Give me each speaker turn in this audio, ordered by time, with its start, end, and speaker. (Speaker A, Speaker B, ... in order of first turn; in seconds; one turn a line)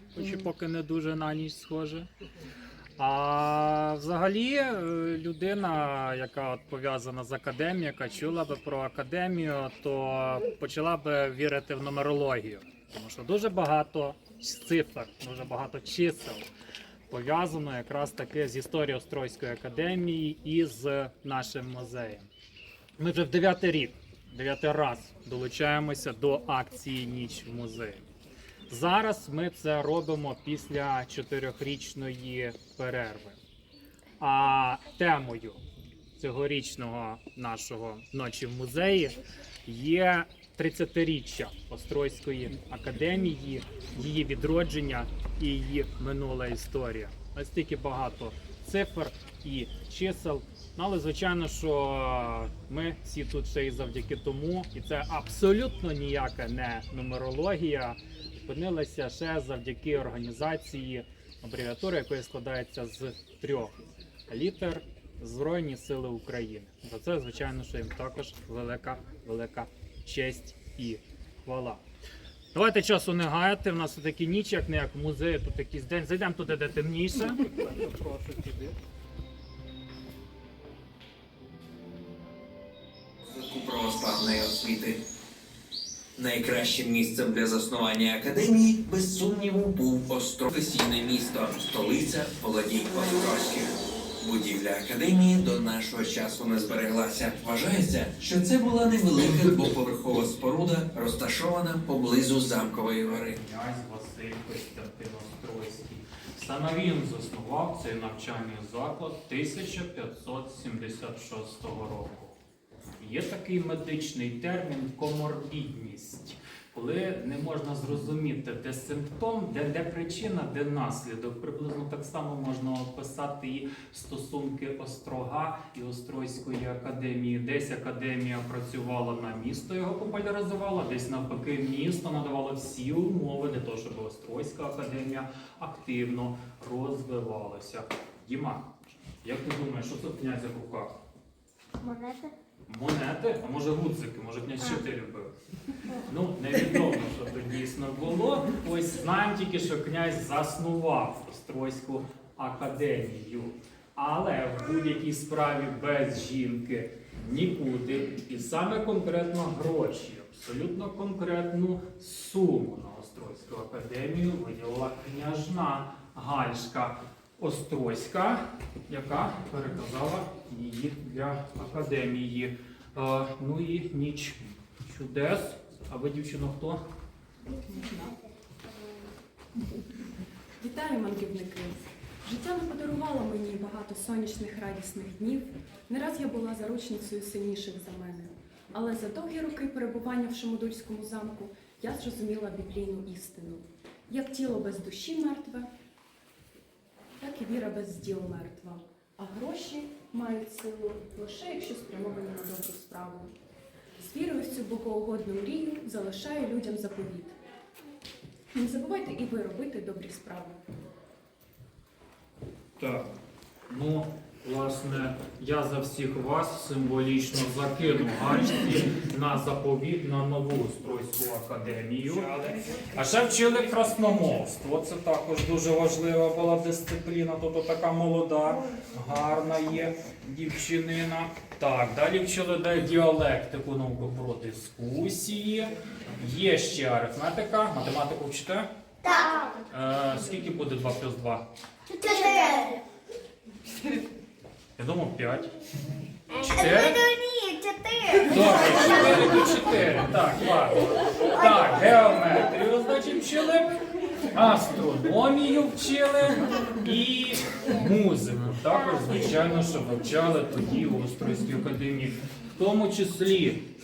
Speaker A: 0.1-2.1
Speaker A: 3.0-16.4
Speaker A: 17.1-22.3
Speaker A: 23.0-28.0
Speaker A: 28.7-33.4
Speaker A: 34.2-35.6
Speaker A: 36.1-63.7
Speaker A: 64.3-71.8
Speaker A: 72.5-77.7
Speaker B: 83.3-85.0
Speaker B: 86.2-103.3
Speaker A: 103.3-112.3
Speaker A: 113.0-140.9
Speaker C: 141.8-142.3
Speaker A: 142.7-145.3
Speaker A: 146.0-176.8
Speaker D: 180.6-195.7
Speaker D: 197.2-203.3
Speaker D: 204.0-207.3
Speaker D: 208.5-210.6
Speaker A: 212.8-213.1
Speaker A: 213.7-238.7
Speaker C: 239.1-239.4
Speaker A: 239.7-241.5
Speaker C: 242.0-242.7
Speaker A: 244.8-245.5
Speaker A: 246.3-247.1
Speaker C: 246.7-248.1
Speaker A: 248.2-253.8
Speaker A: 254.3-263.7